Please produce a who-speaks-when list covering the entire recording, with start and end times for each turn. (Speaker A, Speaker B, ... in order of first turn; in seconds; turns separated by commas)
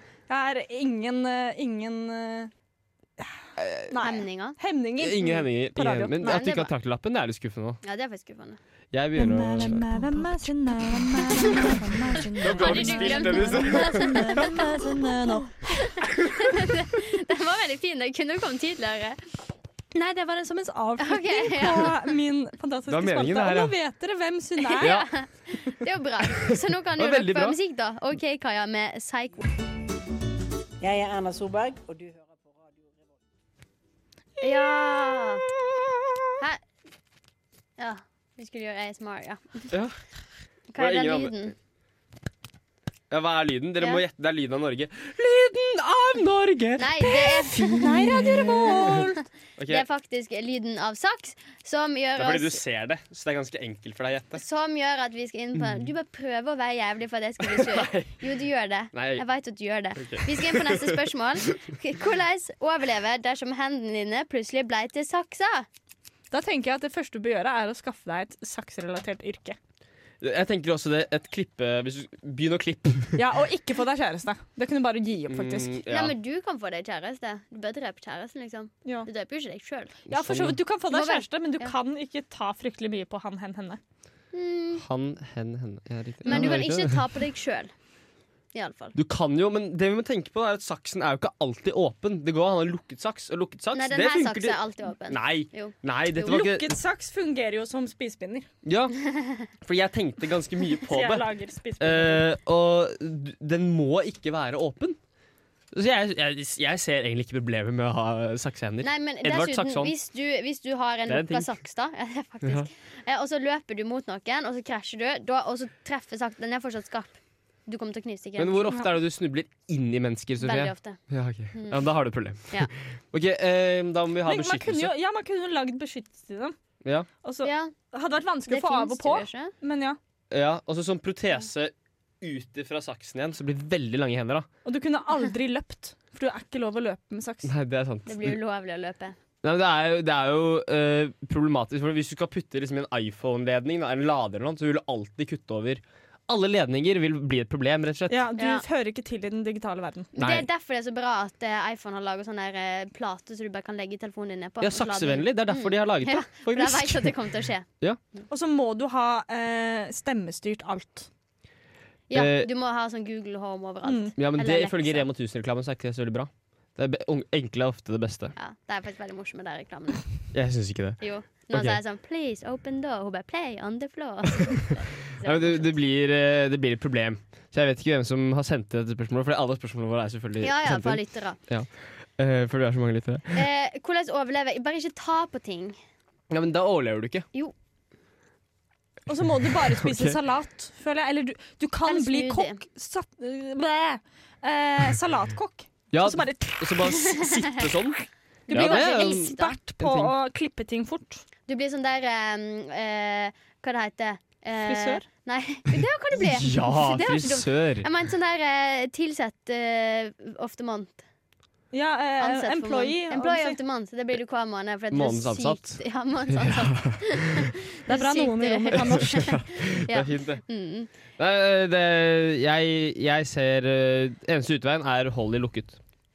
Speaker A: 0.3-2.5, Speaker B: 3.6-3.9, Speaker A: 3.9-6.4, Speaker C: 4.0-4.6, Speaker B: 5.0-7.8, Speaker C: 6.2-6.7, Speaker C: 7.8-8.6, Speaker B: 8.9-9.9, Speaker A: 9.2-16.1, Speaker B: 11.4-11.8, Speaker B: 12.4-14.5, Speaker C: 12.5-14.7, Speaker C: 15.7-19.2, Speaker A: 19.9-24.9, Speaker C: 21.0-22.0, Speaker B: 22.9-23.8, Speaker C: 24.7-29.5, Speaker B: 24.8-25.1, Speaker B: 26.2-27.6, Speaker D: 30.8-32.9, Speaker C: 34.4-35.4, Speaker A: 34.5-34.8, Speaker B: 35.6-36.2, Speaker C: 37.8-39.8, Speaker B: 39.7-40.0, Speaker C: 40.7-41.5, Speaker B: 40.8-41.4, Speaker B: 43.1-49.8, Speaker C: 46.8-47.9, Speaker A: 47.8-49.2, Speaker C: 49.7-52.6, Speaker B: 52.2-54.4, Speaker C: 54.3-65.7, Speaker B: 55.5-55.9, Speaker B: 57.4-58.2, Speaker B: 58.9-59.2, Speaker B: 60.0-61.6, Speaker A: 66.3-69.6, Speaker B: 70.2-73.2, Speaker A: 73.2-75.7, Speaker B: 75.3-76.2, Speaker C: 75.9-80.0, Speaker B: 80.1-80.6, Speaker A: 80.1-83.8, Speaker C: 80.9-81.7, Speaker C: 84.3-84.8, Speaker B: 84.8-87.0, Speaker C: 86.2-87.7, Speaker C: 88.5-89.0, Speaker B: 88.9-96.7, Speaker C: 93.7-96.3, Speaker A: 96.2-98.5, Speaker B: 98.7-98.9, Speaker C: 99.0-99.5, Speaker B: 99.5-101.3, Speaker A: 100.9-102.2, Speaker B: 101.8-105.0, Speaker B: 105.7-109.9, Speaker C: 108.8-118.7, Speaker B: 111.1-111.5, Speaker B: 112.4-112.7, Speaker B: 118.4-124.9, Speaker C: 120.4-121.0, Speaker C: 121.5-121.8, Speaker A: 124.3-126.5, Speaker A: 127.2-130.0, Speaker C: 127.4-127.7, Speaker C: 128.5-129.5, Speaker B: 130.3-134.5, Speaker A: 134.7-137.5, Speaker B: 137.4-138.4, Speaker C: 138.1-139.2, Speaker B: 139.4-148.2, Speaker A: 148.1-150.1, Speaker C: 148.4-148.6, Speaker C: 150.2-157.7, Speaker B: 150.2-150.4, Speaker B: 154.6-157.2, Speaker A: 158.3-161.1, Speaker C: 162.1-165.1, Speaker B: 162.1-162.5, Speaker A: 163.8-164.1, Speaker B: 164.2-168.3, Speaker C: 168.3-170.0, Speaker B: 170.3-171.8, Speaker C: 171.0-175.8, Speaker B: 175.2-183.4, Speaker C: 180.4-181.4, Speaker C: 183.3-185.8, Speaker B: 186.3-187.3, Speaker A: 189.1-197.0, Speaker B: 189.5-190.2, Speaker C: 191.8-192.6, Speaker B: 195.9-198.0, Speaker C: 197.1-197.6, Speaker A: 198.5-201.2, Speaker C: 198.5-199.6, Speaker B: 198.5-200.1, Speaker C: 201.5-211.0, Speaker A: 204.6-205.1, Speaker B: 206.2-207.9, Speaker A: 211.7-213.6, Speaker C: 212.2-220.9, Speaker B: 214.9-217.5, Speaker A: 217.9-219.3, Speaker B: 218.8-220.4, Speaker B: 221.2-225.8